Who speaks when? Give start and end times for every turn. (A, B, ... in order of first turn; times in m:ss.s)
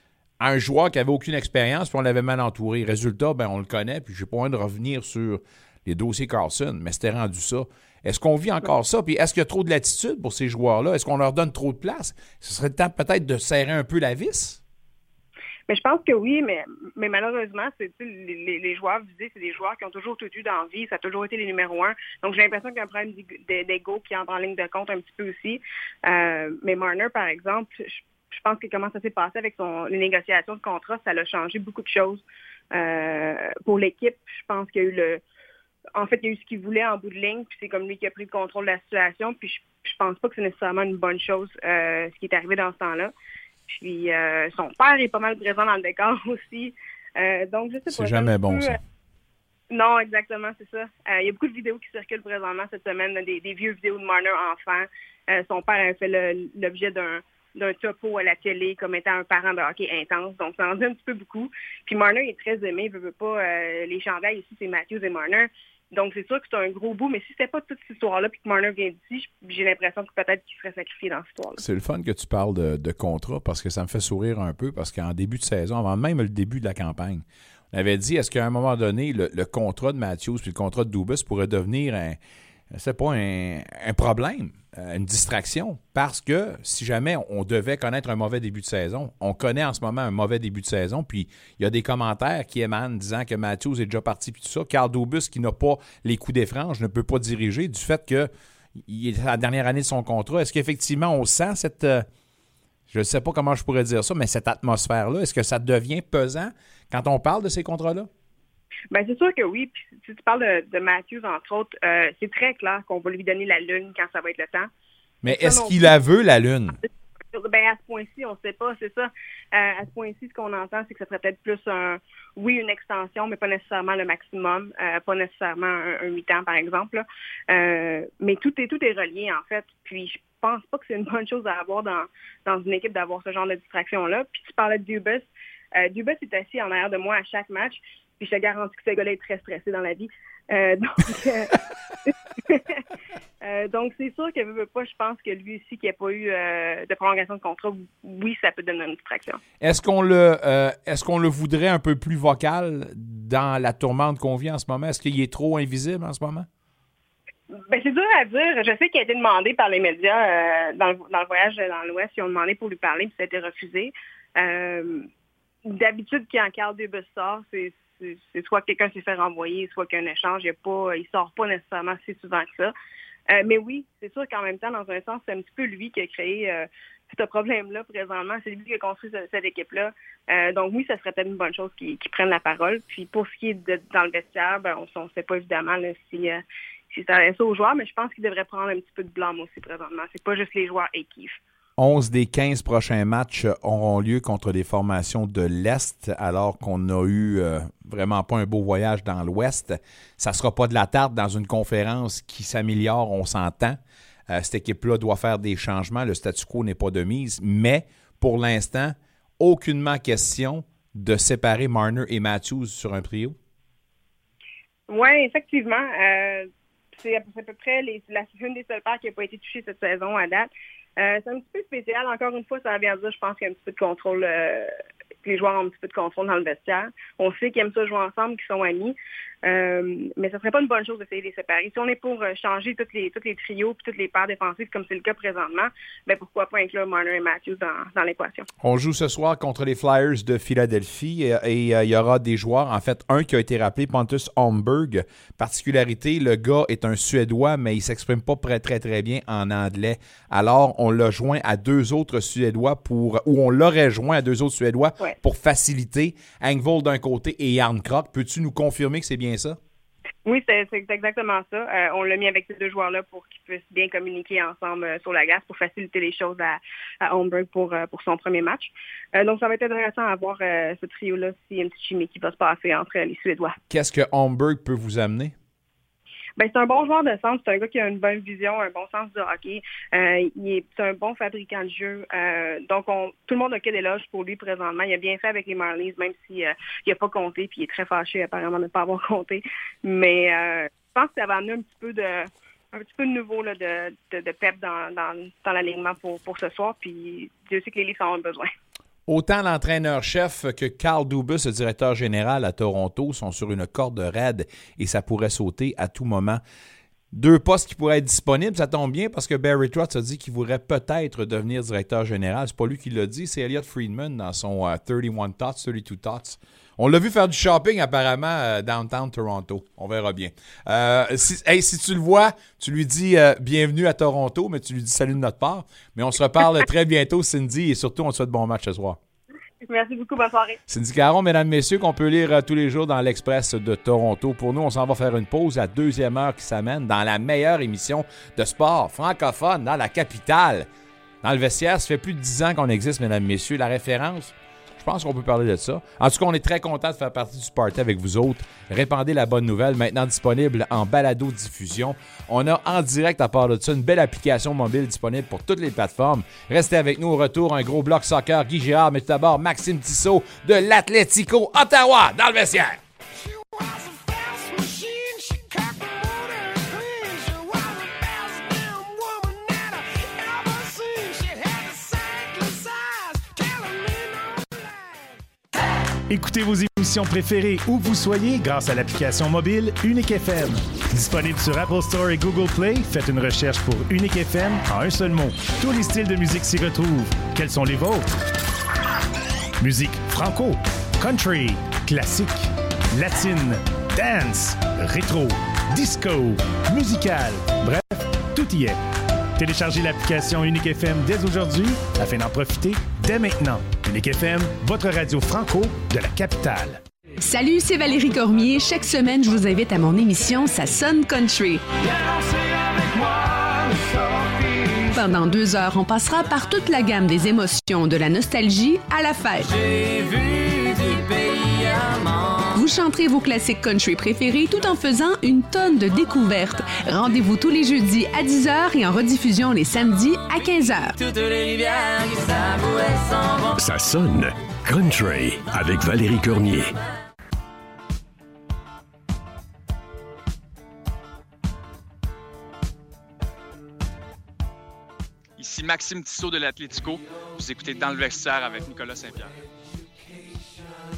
0:00.4-0:14.6 A
0:15.7-0:35.2 B
0:36.0-0:43.1 B
0:43.7-0:48.8 B
0:47.9-0:48.8 A
0:49.7-1:11.6 B
1:11.6-1:22.2 A
1:22.7-1:42.1 A
1:42.9-1:48.1 A
1:48.9-1:54.7 B
1:55.2-1:56.8 A
1:55.2-1:55.9 B
1:56.8-2:21.5 B
2:22.1-2:22.8 B
2:23.4-2:29.4 B
2:29.6-2:36.5 A
2:37.5-2:45.1 B
2:45.7-2:52.7 B
2:53.3-3:11.4 B
3:11.8-3:33.4 A
3:34.9-3:44.7 B
3:45.2-3:58.5 B
3:58.6-4:19.6 A
4:20.3-4:33.6 B
4:33.7-4:35.3 A
4:36.4-4:58.5 B
4:59.1-5:06.4 A
5:07.1-5:29.0 A
5:29.6-5:30.6 B
5:30.7-5:40.7 A
5:41.2-6:02.8 A
6:16.1-6:28.2 C
6:29.6-6:38.8 C
6:39.4-6:46.8 C
6:47.2-6:51.7 D
6:54.9-7:01.0 D
7:02.5-7:11.1 D
7:13.6-7:16.7 E
7:25.4-7:29.3 F